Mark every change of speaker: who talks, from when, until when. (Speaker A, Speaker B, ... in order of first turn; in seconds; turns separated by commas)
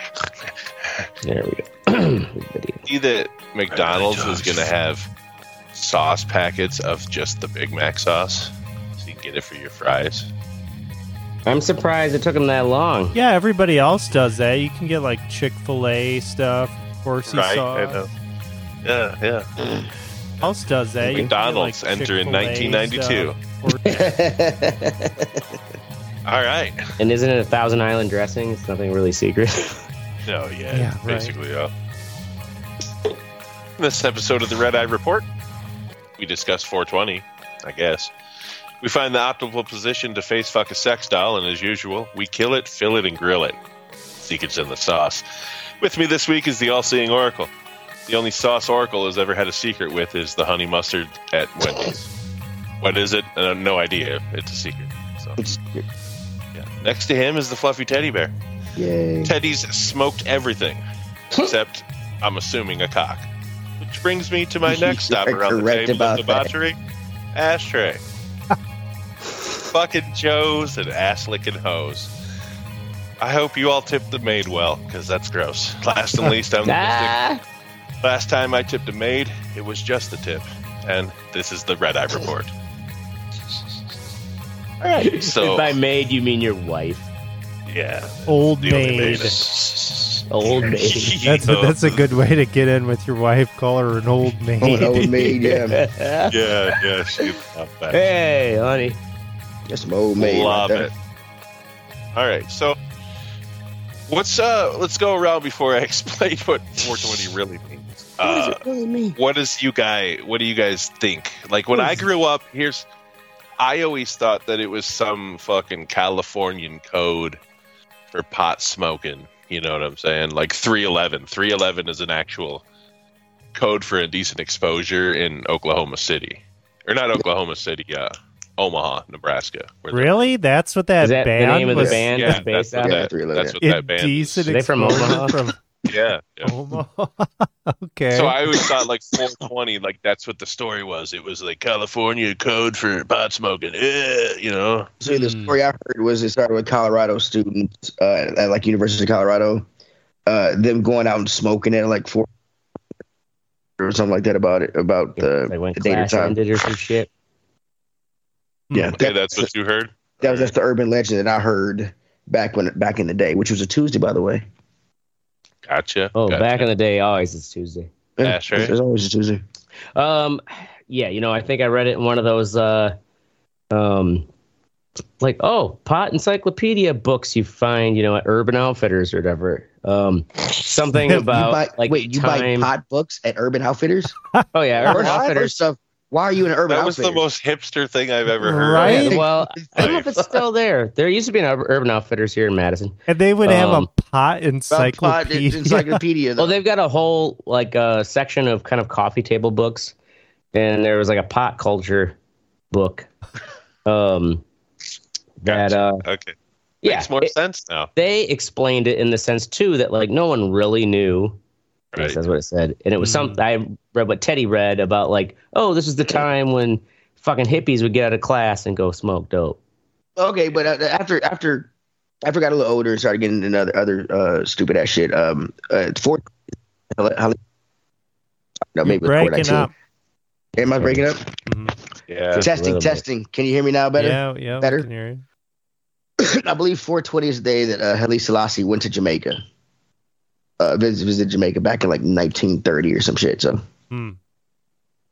Speaker A: 1.2-2.9, Speaker B: 2.9-5.1, Speaker B: 5.7-10.3, Speaker A: 11.4-13.2, Speaker C: 13.1-18.0, Speaker B: 17.2-18.1, Speaker B: 18.8-19.5, Speaker C: 20.4-24.1, Speaker D: 21.0-21.3, Speaker B: 21.0-23.4, Speaker D: 23.9-25.4, Speaker B: 26.3-26.8, Speaker A: 27.0-29.8, Speaker B: 30.3-31.7, Speaker C: 30.7-31.3, Speaker B: 33.8-35.3, Speaker B: 36.2-38.1, Speaker B: 38.8-43.6, Speaker B: 44.2-45.2, Speaker B: 45.8-47.5, Speaker B: 48.1-52.1, Speaker B: 52.8-55.4, Speaker D: 55.4-55.8, Speaker B: 56.5-58.3, Speaker D: 58.8-59.3, Speaker B: 59.2-60.8, Speaker B: 61.3-63.3, Speaker B: 63.8-66.8, Speaker D: 64.7-66.5, Speaker B: 67.3-68.0, Speaker B: 69.7-72.1, Speaker B: 73.2-77.2, Speaker A: 76.7-77.4, Speaker B: 78.0-82.5, Speaker B: 84.8-85.8, Speaker A: 85.0-87.1, Speaker B: 87.7-92.1, Speaker C: 88.3-89.4, Speaker A: 90.3-91.2, Speaker C: 91.2-95.3, Speaker D: 94.6-95.8, Speaker A: 95.4-97.3, Speaker B: 96.3-98.0, Speaker A: 97.9-99.0, Speaker D: 99.7-100.9, Speaker B: 100.2-100.9, Speaker B: 102.1-102.8, Speaker B: 104.1-108.6, Speaker A: 108.2-109.2, Speaker B: 109.2-112.9, Speaker A: 111.7-112.1, Speaker B: 113.6-117.4, Speaker B: 118.1-122.6, Speaker B: 123.5-130.2, Speaker C: 129.9-132.1, Speaker A: 131.0-133.0, Speaker D: 131.7-132.1, Speaker B: 132.1-135.0, Speaker D: 132.8-133.6, Speaker C: 133.6-135.6, Speaker A: 134.5-135.3, Speaker B: 135.8-136.5, Speaker C: 136.4-138.4, Speaker B: 138.1-144.9, Speaker D: 145.0-149.7, Speaker C: 145.1-145.6, Speaker D: 150.2-152.3, Speaker D: 153.8-156.4, Speaker A: 155.2-157.1, Speaker C: 158.7-159.0, Speaker D: 158.7-159.5, Speaker B: 158.8-160.5, Speaker D: 160.2-164.4, Speaker B: 165.6-166.7, Speaker A: 166.2-167.9, Speaker D: 168.2-169.4, Speaker B: 168.2-168.8, Speaker A: 169.9-172.9, Speaker A: 173.7-174.3, Speaker A: 175.2-182.7, Speaker C: 181.0-181.3, Speaker D: 181.1-184.2, Speaker A: 184.5-185.6, Speaker B: 184.8-185.4, Speaker D: 184.8-187.2, Speaker B: 186.7-189.2, Speaker C: 188.4-189.2, Speaker A: 188.8-193.9, Speaker D: 188.8-190.2, Speaker B: 189.8-190.2, Speaker C: 193.1-196.0, Speaker D: 194.7-196.6, Speaker A: 196.4-199.9, Speaker A: 200.5-202.2, Speaker A: 202.7-203.1, Speaker A: 203.8-204.4, Speaker A: 205.4-206.0, Speaker B: 205.4-207.9, Speaker A: 206.8-207.3, Speaker A: 207.9-211.4, Speaker B: 211.9-212.2, Speaker A: 212.0-219.6, Speaker C: 213.0-213.4, Speaker D: 220.2-221.7, Speaker D: 222.2-226.3, Speaker D: 226.9-227.4, Speaker D: 228.7-229.7, Speaker C: 228.8-229.7, Speaker D: 230.6-231.2, Speaker C: 231.5-231.8, Speaker B: 232.1-232.5, Speaker A: 232.3-233.0, Speaker D: 232.3-234.8, Speaker C: 234.0-235.2, Speaker D: 236.2-239.4, Speaker D: 240.6-243.6, Speaker C: 243.9-244.2